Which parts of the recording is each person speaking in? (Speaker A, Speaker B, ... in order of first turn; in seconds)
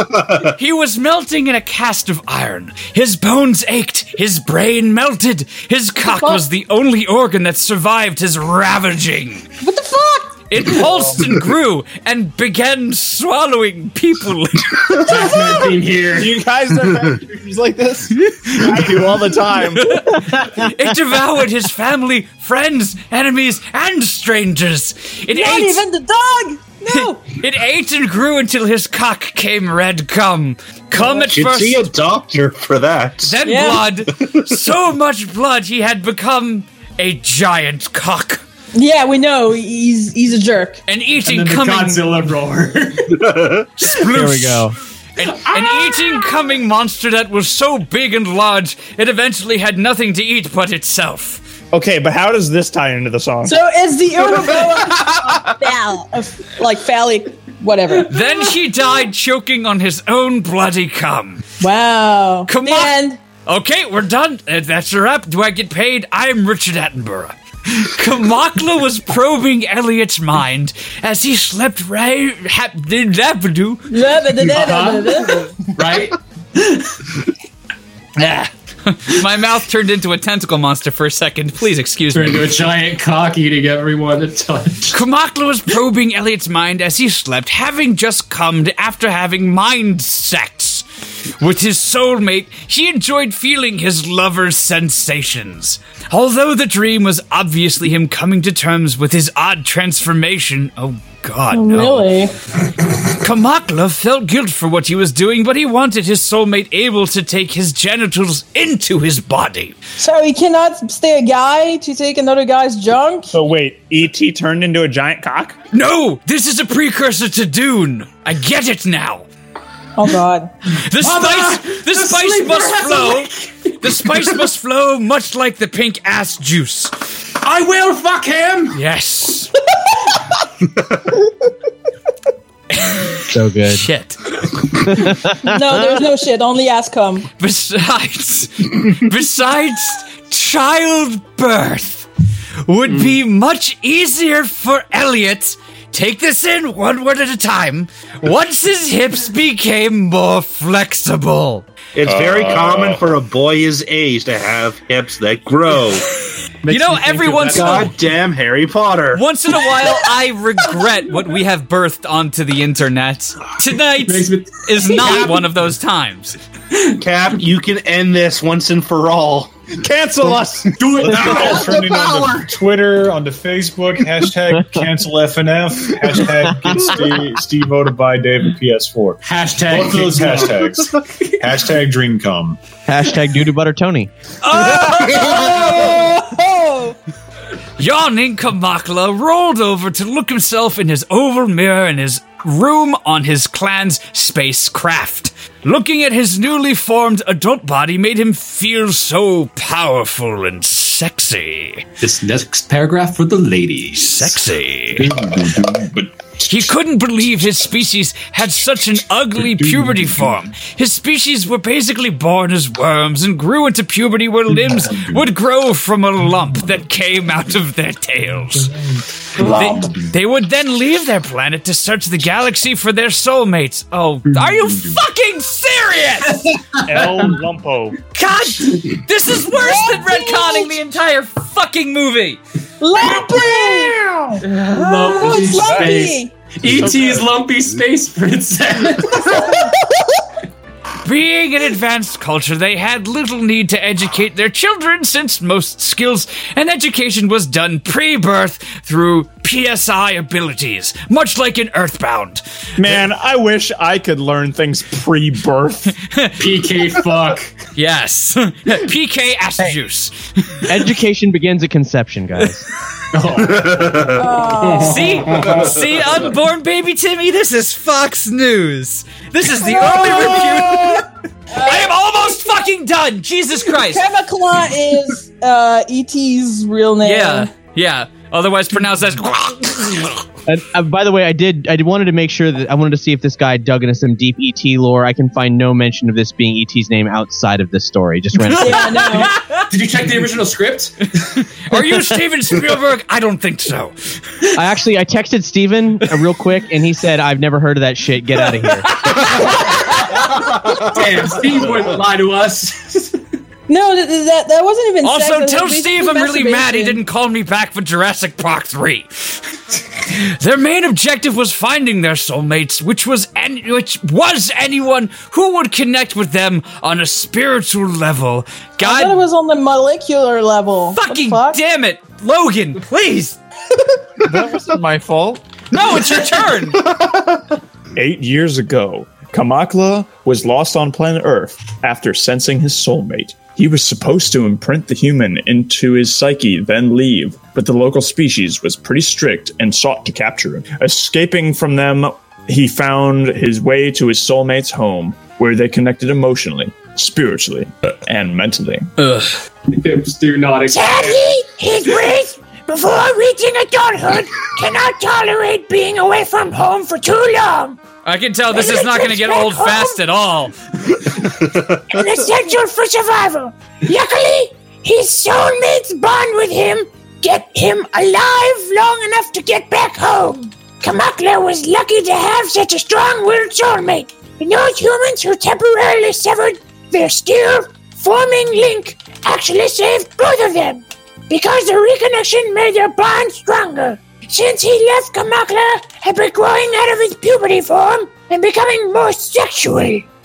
Speaker A: 0.5-9.5, 10.5-14.9, 18.4-19.1, 19.7-25.8, 26.9-31.9, 33.2-38.4, 40.9-42.0, 43.8-51.4, 58.1-61.5, 62.5-73.9, 78.2-82.5, 84.9-90.8, 91.4-102.1, 103.0-109.8, 115.7-119.2, 120.7-126.9, 128.7-129.5, 132.7-134.6, 137.4-142.1, 142.7-151.6, 156.7-157.9, 159.1-166.4, 184.4-186.0, 187.8-201.8, 203.9-205.1, 206.5-218.7, 219.4-226.7, 228.1-232.4, 241.0-252.4, 256.1-256.4, 257.8-260.7, 264.8-271.1, 271.6-274.0, 277.0-280.2, 288.8-289.7, 291.2-293.9, 298.6-300.2, 305.0-309.3, 310.1-319.2, 320.9-323.4, 325.7-326.8, 349.0-349.3, 358.0-360.5
Speaker B: 6.0-6.4, 9.6-10.4, 25.3-27.2, 33.4-33.9, 38.7-40.8, 53.4-58.5, 61.6-63.2, 73.9-75.5, 101.5-102.3, 110.0-113.3, 120.0-120.5, 135.4-137.2, 184.7-186.9, 229.5-230.8, 232.8-236.3, 239.4-239.8, 264.1-265.1, 269.5-272.2, 273.7-277.5, 288.5-289.4, 303.7-307.0, 318.8-321.6
Speaker C: 10.8-11.3, 15.0-20.4, 51.7-53.6, 54.2-55.1, 113.3-115.6, 169.7-171.6, 226.8-228.0, 236.8-237.2, 252.8-255.9, 324.2-325.4, 327.9-348.9
Speaker D: 14.9-16.3, 41.2-43.4, 74.4-77.2, 82.1-85.0, 121.0-124.4, 127.4-128.8, 156.6-157.9, 164.0-165.5, 179.2-181.3, 202.0-204.4, 234.5-239.6, 256.4-257.6, 263.1-265.7, 289.6-290.9, 300.7-303.2, 349.7-351.2
Speaker E: 31.1-33.4, 34.2-34.5, 151.9-156.1, 157.5-159.2, 167.0-169.5, 263.6-264.2, 361.4-361.8
Speaker F: 44.0-44.7, 133.3-133.8, 134.9-135.6, 171.1-171.6, 176.4-177.1, 182.9-184.1, 260.7-262.6, 280.5-289.1, 294.5-299.2
Speaker G: 152.0-153.1, 170.8-182.6, 205.0-206.7, 209.4-210.3, 214.7-215.2, 219.3-220.0
Speaker H: 350.7-357.8, 358.5-360.0, 361.9-390.1